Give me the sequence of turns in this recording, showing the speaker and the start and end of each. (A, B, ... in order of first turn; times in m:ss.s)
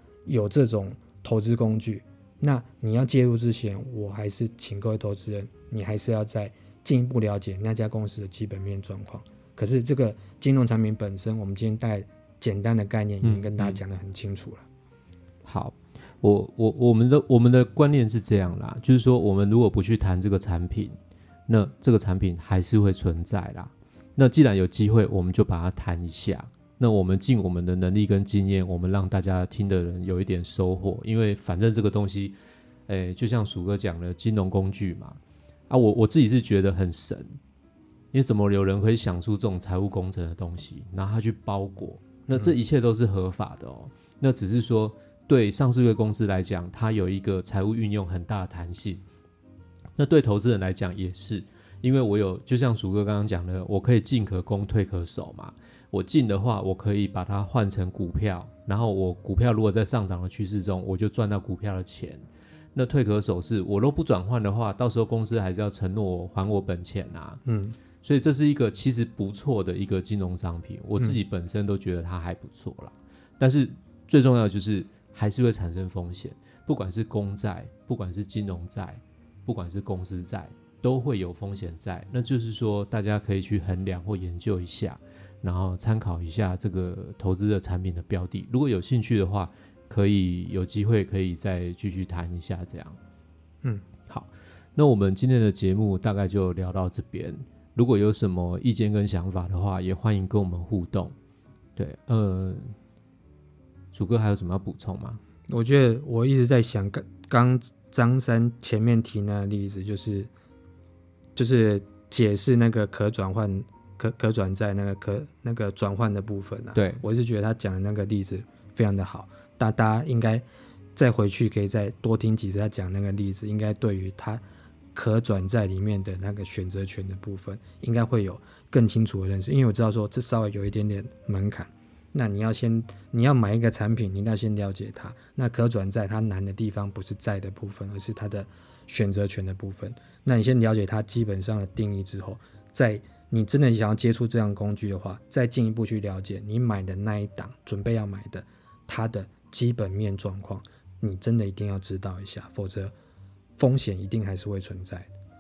0:00.3-0:14.7 A
0:13.2-0:13.8 B
0:15.4-0:21.0 B
0:21.5-0:37.4 B
0:38.1-0:49.0 B
0:50.0-1:07.4 B
1:07.5-1:07.8 A
1:08.0-1:33.0 B
1:34.1-1:41.2 B
1:41.8-1:42.8 B
1:43.9-1:45.2 B
1:45.5-1:50.3 A
1:51.4-2:04.4 A
1:56.8-1:57.0 B
2:04.9-2:32.9 A
2:33.6-2:35.1 A